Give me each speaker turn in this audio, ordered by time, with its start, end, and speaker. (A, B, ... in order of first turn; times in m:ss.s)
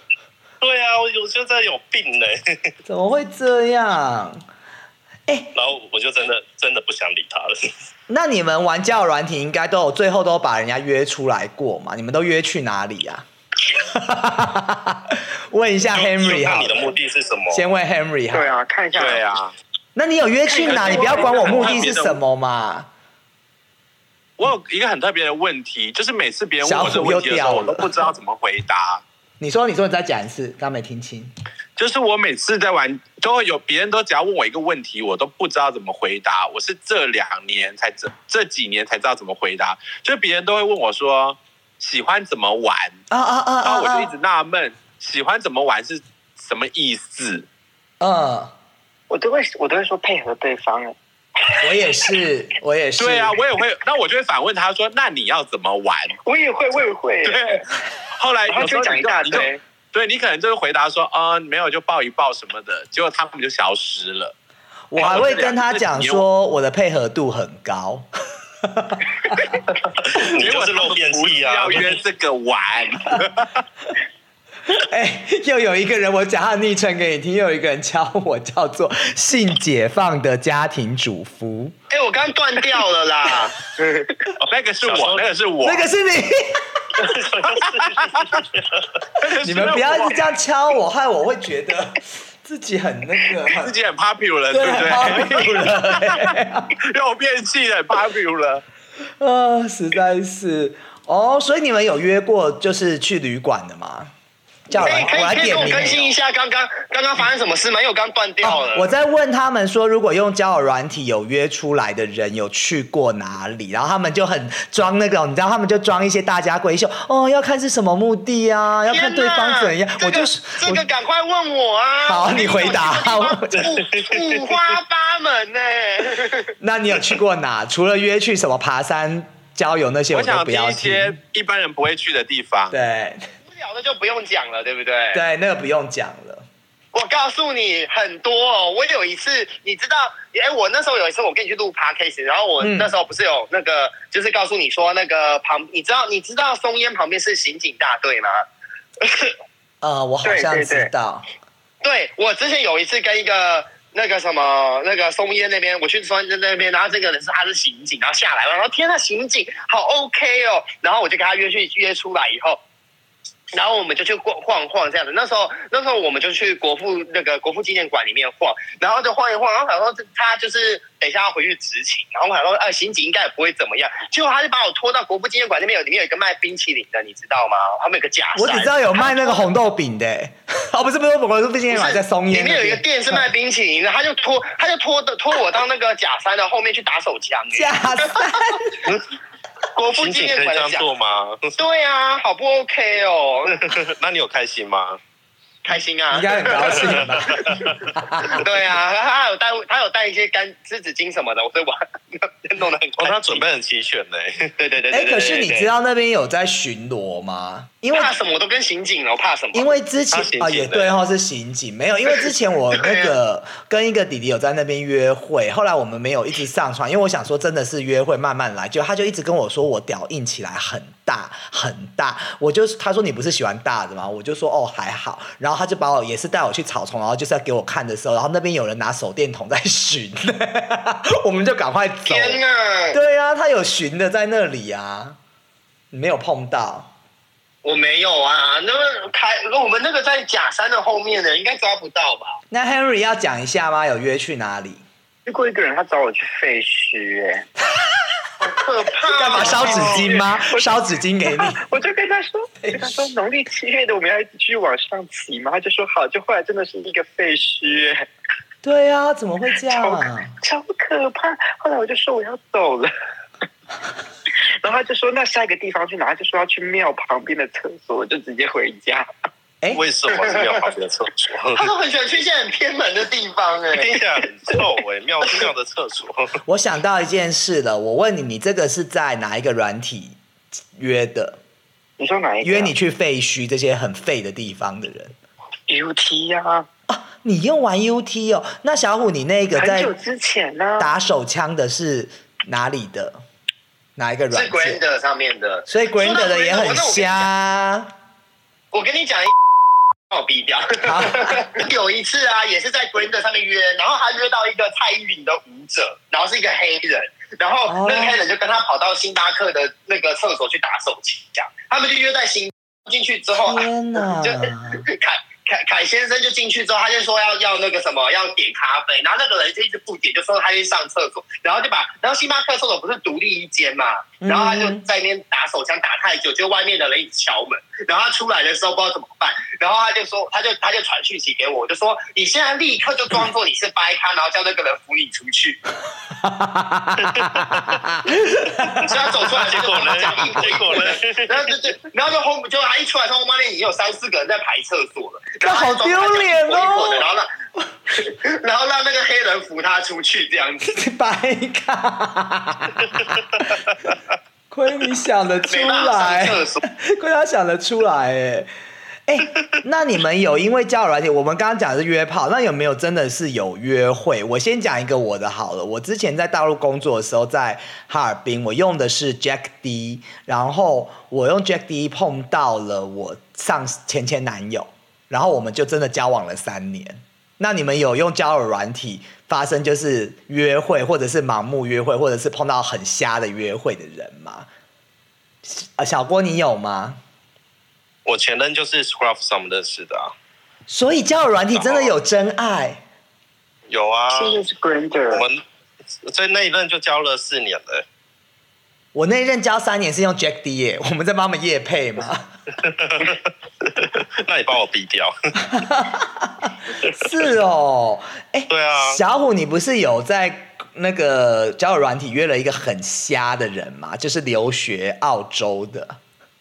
0:00.6-0:02.7 A
0:02.9-0:04.4 B
0:05.3-0:05.5 B
0:05.6-0:07.7 A
0:08.1-0:17.0 B
0:15.9-0:17.6 A
0:17.5-0:18.5 B
0:18.3-0:19.3 C
0:18.9-0:19.6 D
0:20.0-0:22.9 B
0:20.5-0:22.0 C
0:20.6-0:22.2 D
0:24.4-0:29.0 D
0:26.6-0:27.9 B
0:29.4-0:31.3 B
0:31.8-0:43.0 D
0:43.1-0:44.1 B
0:43.6-0:47.5 D
0:48.0-0:48.5 B
0:49.1-0:51.0 C
0:51.6-0:53.4 B
0:53.0-0:56.2 D
0:56.2-0:57.6 C
0:57.2-0:57.6 D
0:58.2-1:04.3 D
0:58.5-0:59.6 C
1:04.9-1:08.1 B
1:05.0-1:06.3 D
1:08.6-1:09.4 B
1:10.0-1:12.0 A
1:10.1-1:13.6 D
1:14.7-1:21.7 B
1:21.9-1:24.3 E
1:24.4-1:25.9 D
1:24.8-1:25.3 A
1:25.6-1:26.8 B
1:27.0-1:28.8 A
1:27.4-1:28.4 D
1:29.2-1:30.3 D
1:29.4-1:33.8 B
1:33.5-1:38.6 D
1:34.5-1:36.7 B
1:39.2-1:44.1 B
1:44.7-1:46.1 B
1:44.8-1:48.9 E
1:48.4-2:00.9 B
1:58.9-2:06.5 E
2:02.0-2:03.7 B
2:03.6-2:04.5 A
2:06.6-2:11.2 B
2:10.1-2:12.8 D
2:12.7-2:13.2 B
2:13.5-2:15.2 E
2:15.1-2:16.4 B
2:16.9-2:28.4 E
2:22.6-2:22.9 B
2:29.0-2:29.3 E
2:29.8-2:31.3 B
2:30.2-2:30.9 C
2:31.8-2:42.6 E
2:43.5-2:59.5 E
2:58.4-3:03.2 B
3:01.7-3:08.3 E
3:07.5-3:08.7 B
3:09.8-3:10.9 E
3:09.8-3:11.6 A
3:11.6-3:13.7 E
3:13.6-3:15.0 A
3:15.6-3:17.1 E
3:16.1-3:18.4 B
3:16.8-3:17.8 A
3:18.3-3:23.4 E
3:23.0-3:24.5 A
3:24.6-3:25.7 E
3:24.9-3:28.2 B
3:27.9-3:29.8 E
3:29.5-3:52.4 B
3:30.1-3:30.9 A
3:32.8-3:33.1 E
3:52.1-3:53.0 E
3:52.9-3:55.2 B
3:55.9-3:56.9 B
3:57.6-4:02.4 E
4:02.5-4:04.8 B
4:05.2-4:07.5 C
4:08.4-4:10.1 E
4:09.1-4:11.7 B
4:09.2-4:18.0 C
4:12.6-4:13.0 B
4:18.6-4:20.3 B
4:19.7-4:22.9 C
4:24.6-4:29.1 C
4:29.7-4:31.7 A
4:30.2-4:30.6 E
4:31.6-4:34.0 E
4:33.7-4:36.4 A
4:36.5-4:40.2 B
4:40.8-4:41.4 B
4:42.0-4:42.7 C
4:42.4-4:45.2 B
4:45.7-4:46.7 C
4:46.9-4:49.9 B
4:49.6-4:50.9 C
4:50.8-4:53.2 B
4:54.0-4:54.8 B
4:54.3-4:57.3 E
4:55.7-4:57.9 B
4:58.7-4:59.3 E
5:00.1-5:35.6 E
5:00.8-5:01.4 B
5:07.7-5:08.2 B
5:13.4-5:14.8 B
5:24.2-5:24.8 B
5:36.1-5:39.4 B
5:37.0-5:37.8 A
5:38.8-5:47.3 E
5:39.5-5:41.5 A
5:45.4-5:47.1 B
5:48.0-5:50.8 E
5:50.7-5:53.6 B
5:54.5-5:58.5 B
5:55.5-5:56.6 E
5:59.1-6:24.5 B
6:25.4-6:27.0 B
6:28.0-6:30.1 A
6:30.7-6:32.8 B
6:31.6-6:32.0 A
6:33.7-6:34.4 A
6:34.1-6:35.3 C
6:35.1-6:35.4 A
6:36.1-6:37.8 A
6:38.9-6:42.3 B
6:42.6-6:45.4 A
6:45.5-6:56.0 B
6:46.8-6:47.1 A
6:48.5-6:49.0 A